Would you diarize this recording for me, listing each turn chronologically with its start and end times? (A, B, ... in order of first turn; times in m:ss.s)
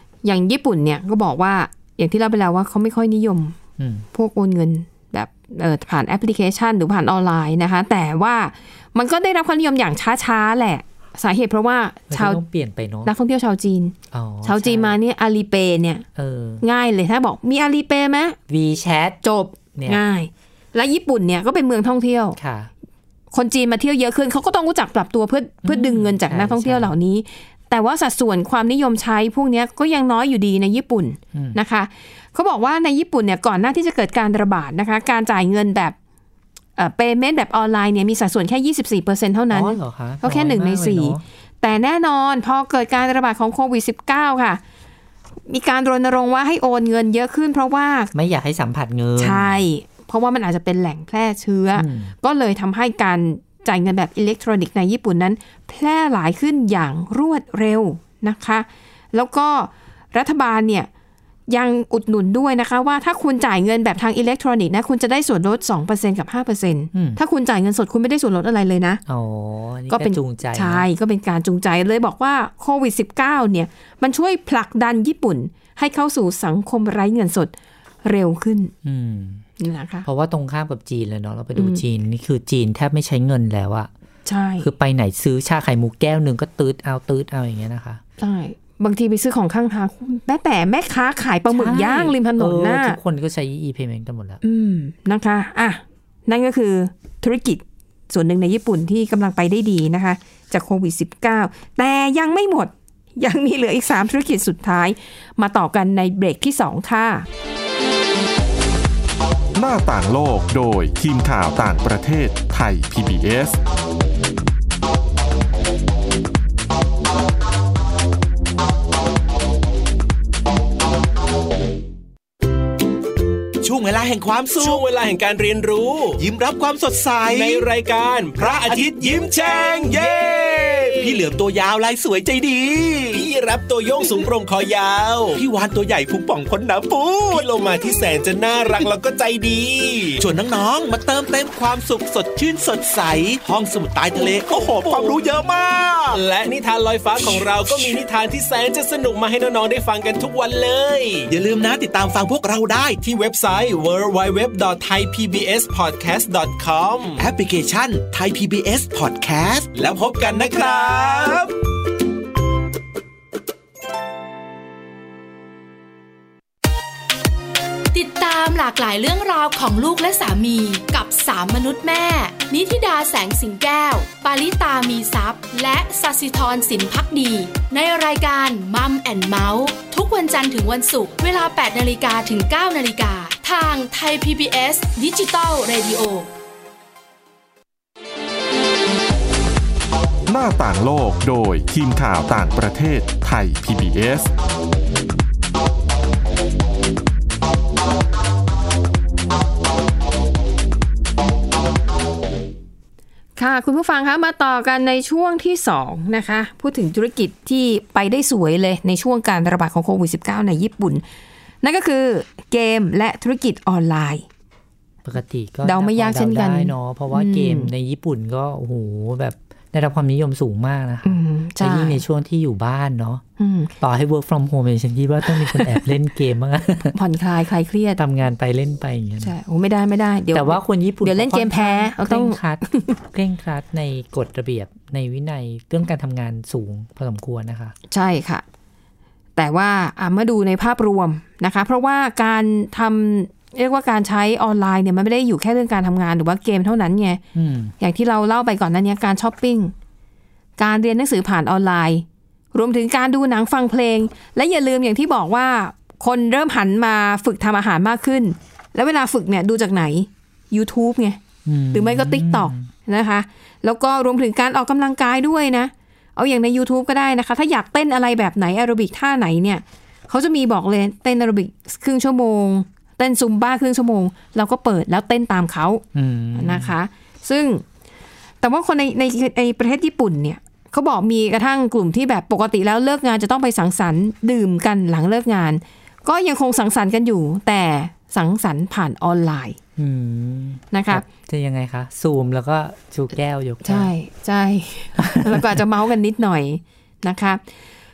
0:00.2-0:03.6 A
0:03.8-0:04.1 B
0:04.1-0:12.4 A
0:12.1-0:13.1 B
0:13.0-0:16.0 A
0:14.1-0:15.0 B
0:16.2-0:16.6 B
0:16.6-0:18.4 A
0:18.5-0:19.2 B
0:19.2-0:22.4 A
0:19.7-0:20.0 B
0:22.4-0:22.7 B
0:23.3-0:36.0 A
0:25.6-0:26.9 B
0:31.3-0:31.6 B
0:36.8-0:44.6 A
0:39.5-0:41.2 B
0:45.5-0:48.1 A
0:48.1-0:49.6 B
0:49.2-1:00.9 A
0:51.7-0:52.1 B
1:01.5-1:09.0 A
1:06.9-1:07.2 B
1:09.1-1:10.9 B
1:09.9-1:17.5 A
1:18.0-1:18.7 A
1:18.8-1:19.4 B
1:19.6-1:20.1 A
1:20.0-1:23.9 B
1:21.6-1:21.8 A
1:24.2-1:24.7 A
1:24.6-1:28.0 B
1:28.2-1:33.0 A
1:31.5-1:34.4 B
1:34.4-1:47.2 A
1:49.6-1:53.6 C
2:03.6-2:04.8 D
2:04.5-2:06.2 E
2:06.2-2:07.7 D
2:07.2-2:11.2 E
2:08.4-2:13.2 D
2:13.1-2:15.4 E
2:15.3-2:17.5 D
2:17.3-2:20.2 E
2:20.2-2:26.2 D
2:24.3-2:25.2 E
2:26.1-2:31.3 E
2:27.2-2:28.0 D
2:31.3-2:33.0 D
2:33.0-2:37.2 E
2:37.2-2:41.4 D
2:39.8-2:41.5 E
2:47.9-3:06.3 F
3:10.3-3:14.3 C
3:23.4-3:31.0 A
3:31.6-3:34.2 A
3:35.0-3:43.2 B
3:35.6-3:37.7 A
3:41.0-3:42.0 A
3:43.4-3:43.7 A
3:43.8-3:47.0 B
3:45.3-3:45.8 A
3:46.9-3:48.0 A
3:48.0-3:49.3 B
3:49.2-3:52.9 A
3:50.3-3:57.7 B
3:57.9-3:58.4 A
3:59.4-4:07.2 A
4:07.3-4:07.7 B
4:07.8-4:09.7 A
4:10.6-4:21.2 A
4:21.4-4:22.7 B
4:21.7-4:35.8 A
4:35.9-4:36.7 B
4:36.3-4:37.6 A
4:38.4-4:49.6 A
4:49.8-4:53.9 B
4:50.7-4:51.0 A
4:53.6-4:57.4 A
4:55.0-4:55.6 B